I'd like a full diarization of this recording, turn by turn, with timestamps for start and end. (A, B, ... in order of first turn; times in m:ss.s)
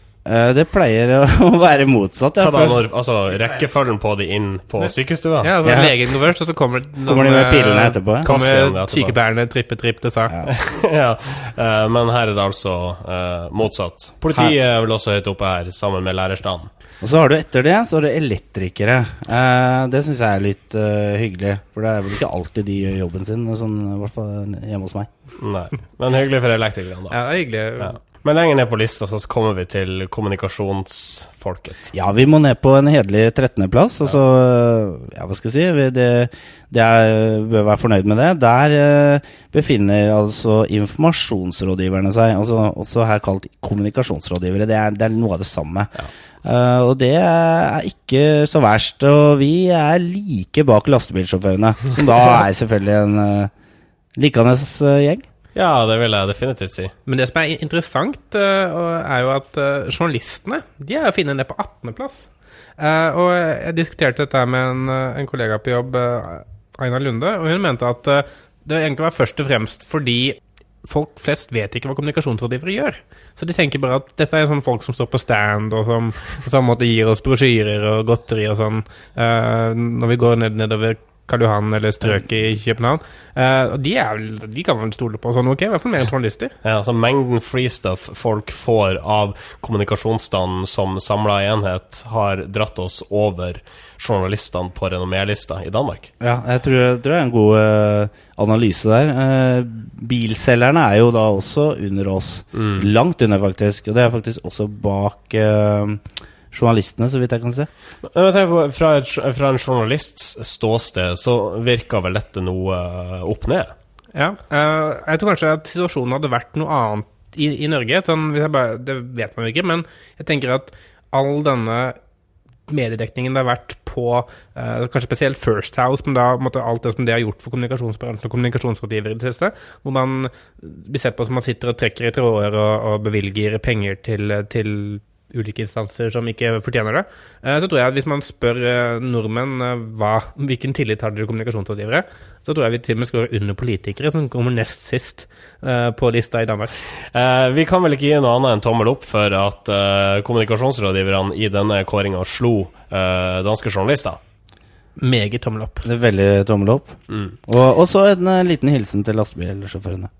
0:00.2-0:02.8 A
0:02.4-0:05.5 B
0:05.4-0:10.3 C
0:05.6-0:05.9 A
0:07.0-0:08.3 A
0:08.2-0:09.2 B
0:10.4-0:16.7 B
0:17.0-0:25.1 A
0:25.4-0:27.2 B
0:27.1-0:27.9 C
0:27.8-0:31.9 B
0:31.9-0:53.5 A
0:54.2-0:55.2 A
0:55.5-0:56.9 B
0:57.0-1:26.5 C
1:26.6-1:36.1 B
1:36.2-1:47.7 A
1:42.5-1:42.9 B
1:48.1-1:53.7 B
1:54.1-2:02.0 C
2:02.7-2:26.7 C
2:27.1-2:34.2 B
2:35.0-2:35.8 C
2:35.8-2:40.1 A
2:37.1-2:37.3 B